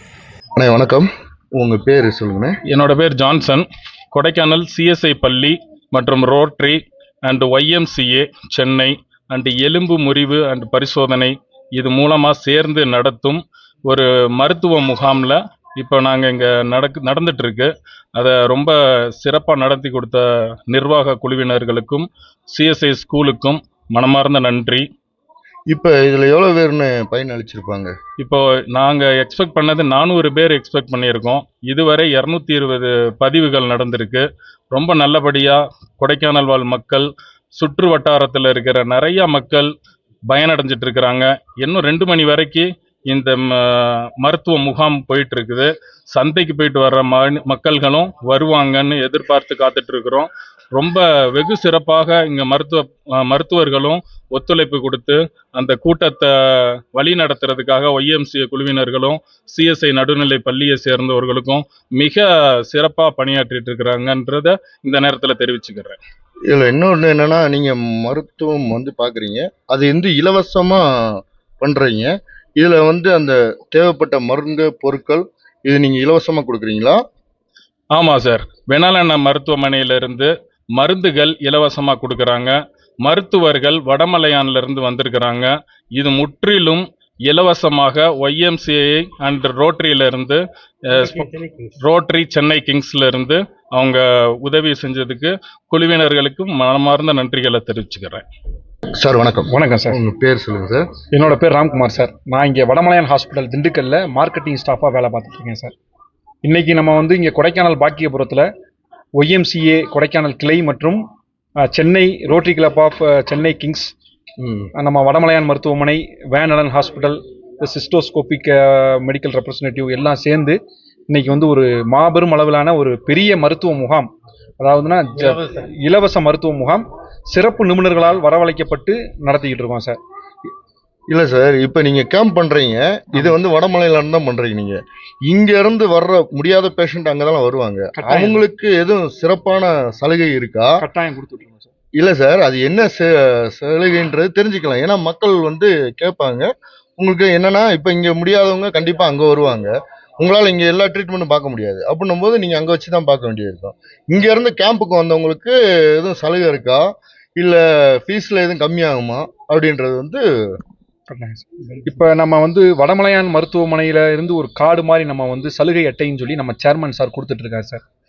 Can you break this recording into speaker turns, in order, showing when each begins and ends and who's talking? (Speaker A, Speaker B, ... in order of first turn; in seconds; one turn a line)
Speaker A: 0.6-2.6
Speaker B: 2.7-24.9
Speaker A: 25.7-27.9
Speaker B: 28.2-39.7
Speaker B: 40.3-66.0
Speaker A: 66.5-77.0
Speaker B: 78.0-98.2
Speaker A: 99.0-100.9
Speaker C: 99.5-100.0
Speaker C: 101.1-105.7
Speaker C: 106.4-108.5
Speaker C: 109.2-111.0
Speaker C: 111.7-113.9
Speaker A: 114.4-114.7
Speaker C: 114.8-120.6
Speaker C: 121.1-130.0
Speaker A: 131.1-140.8
Speaker C: 138.0-138.4
Speaker C: 140.8-141.7
Speaker A: 142.0-160.2
Speaker C: 161.1-167.8